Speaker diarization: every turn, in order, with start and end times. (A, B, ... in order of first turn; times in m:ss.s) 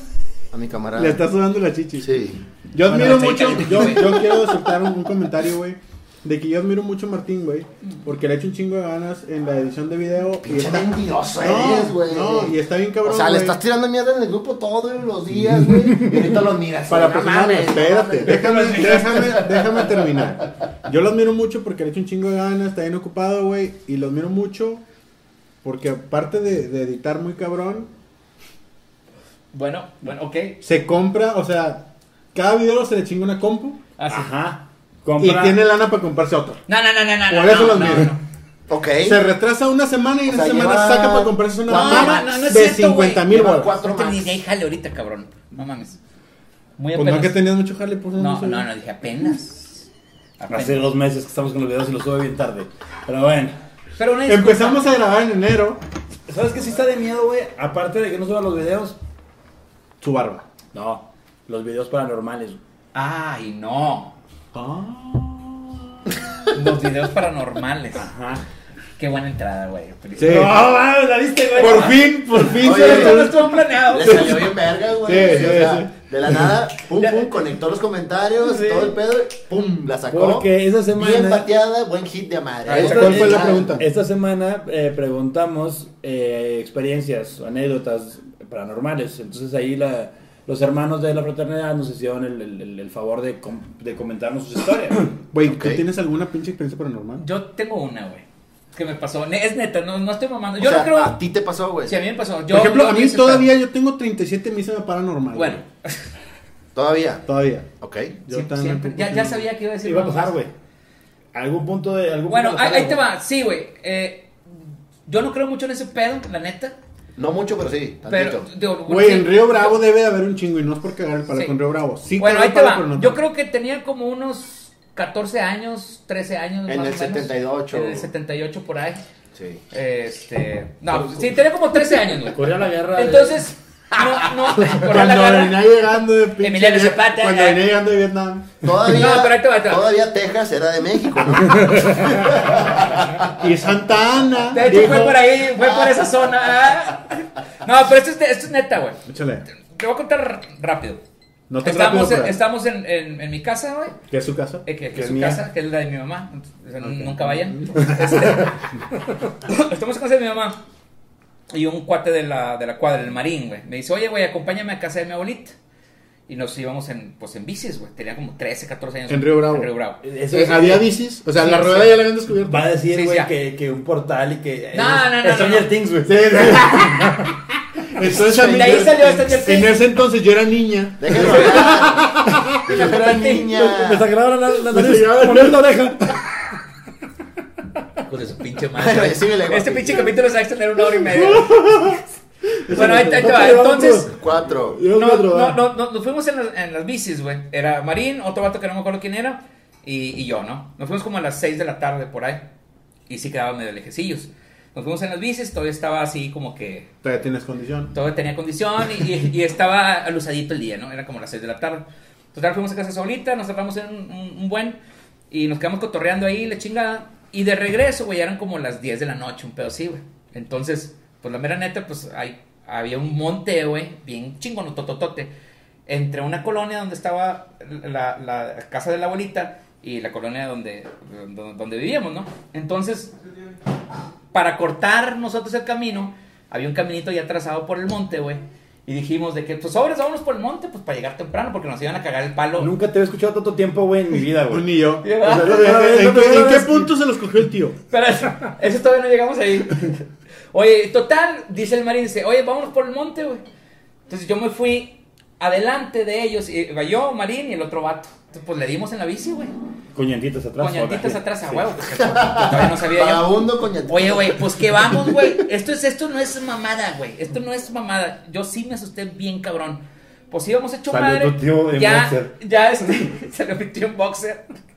0:00.5-0:01.2 A
0:01.0-0:02.1 B
0:02.0-0:02.4 A
0:02.7-0:13.6 B
0:02.9-0:03.9 C
0:02.9-0:04.4 D
0:10.4-0:19.9 A
0:16.9-0:24.8 B
0:18.3-0:19.1 C
0:25.6-0:27.9 B
0:29.5-0:30.6 D
0:30.6-0:33.8 B
0:34.0-0:34.3 D
0:34.1-0:35.6 C
0:35.2-0:36.6 B
0:36.7-0:38.2 D
0:37.3-0:38.1 B
0:38.7-0:39.2 A
0:39.0-0:43.7 B
0:40.3-0:42.4 A
0:41.7-0:46.0 D
0:43.3-0:44.4 A
0:46.8-0:47.4 D
0:46.9-0:48.7 B
0:48.2-0:49.9 D
0:50.4-0:50.9 D
0:50.5-0:53.6 C
0:54.0-0:54.9 D
0:54.2-0:55.8 B
0:56.3-0:59.0 C
1:00.0-1:00.4 B
1:00.7-1:02.6 C
1:02.9-1:04.1 D
1:04.5-1:06.2 B
1:06.5-1:08.1 D
1:08.0-1:08.4 C
1:09.0-1:10.5 D
1:10.2-1:10.6 B
1:10.2-1:12.1 C
1:11.6-1:16.5 B
1:12.5-1:14.5 D
1:12.6-1:13.3 A
1:13.9-1:23.8 A
1:16.9-1:17.3 D
1:18.4-1:19.0 D
1:20.0-1:21.5 C
1:22.7-1:23.4 D
1:22.7-1:23.9 B
1:22.7-1:35.1 C
1:35.3-1:37.2 B
1:35.4-1:35.8 A
1:37.2-1:41.2 D
1:40.6-1:41.9 A
1:41.8-1:43.5 D
1:42.5-1:45.6 B
1:45.3-1:46.0 D
1:46.7-1:47.2 A
1:47.2-1:47.7 B
1:47.8-1:48.2 A
1:48.2-1:49.5 B
1:48.3-1:50.4 D
1:49.8-1:50.5 C
1:51.3-1:53.0 C
1:52.3-1:54.3 D
1:55.0-1:56.7 D
1:57.2-1:58.5 A
1:58.1-1:59.8 D
1:58.9-2:03.2 B
2:02.2-2:09.0 D
2:06.7-2:08.1 A
2:09.3-2:09.6 A
2:09.7-2:15.7 D
2:10.9-2:11.2 C
2:12.3-2:13.4 C
2:14.7-2:18.5 B
2:16.4-2:17.7 D
2:18.6-2:23.3 A
2:18.8-2:19.9 D
2:23.3-2:25.2 B
2:24.5-2:29.0 D
2:29.1-2:29.4 B
2:29.7-2:31.0 D
2:31.5-2:32.4 B
2:31.6-2:34.0 D
2:34.1-2:34.6 B
2:34.6-2:38.6 D
2:34.9-2:35.4 C
2:36.8-2:38.5 B
2:39.4-2:40.6 D
2:41.5-2:45.5 D
2:46.3-2:50.0 D
2:49.1-2:49.7 B
2:50.0-2:50.9 C
2:50.3-2:52.7 B
2:51.4-2:52.0 D
2:52.4-2:57.3 C
2:52.9-2:53.3 D
2:54.7-2:55.7 D
2:56.0-2:57.3 B
2:57.9-3:02.8 B
2:58.1-2:58.9 A
2:58.3-2:59.8 D
3:01.0-3:04.1 A
3:01.1-3:01.8 D
3:02.6-3:03.6 D
3:03.5-3:06.2 C
3:04.7-3:06.1 B
3:08.0-3:12.0 D
3:08.8-3:10.1 A
3:11.3-3:12.0 B
3:11.6-3:11.9 C
3:12.7-3:15.6 C
3:12.7-3:13.1 B
3:12.7-3:14.1 D
3:14.1-3:14.8 A
3:14.9-3:22.4 D
3:23.1-3:26.9 D
3:27.0-3:27.9 B
3:27.9-3:34.8 D
3:35.3-3:45.3 D
3:45.9-3:53.1 D
3:54.3-4:02.7 D
4:02.6-4:06.9 C
4:04.5-4:07.8 B
4:05.0-4:05.5 D
4:07.9-4:13.4 D
4:14.1-4:19.5 D
4:19.9-4:21.6 C
4:20.6-4:34.4 D
4:21.9-4:25.3 A
4:30.9-4:32.3 C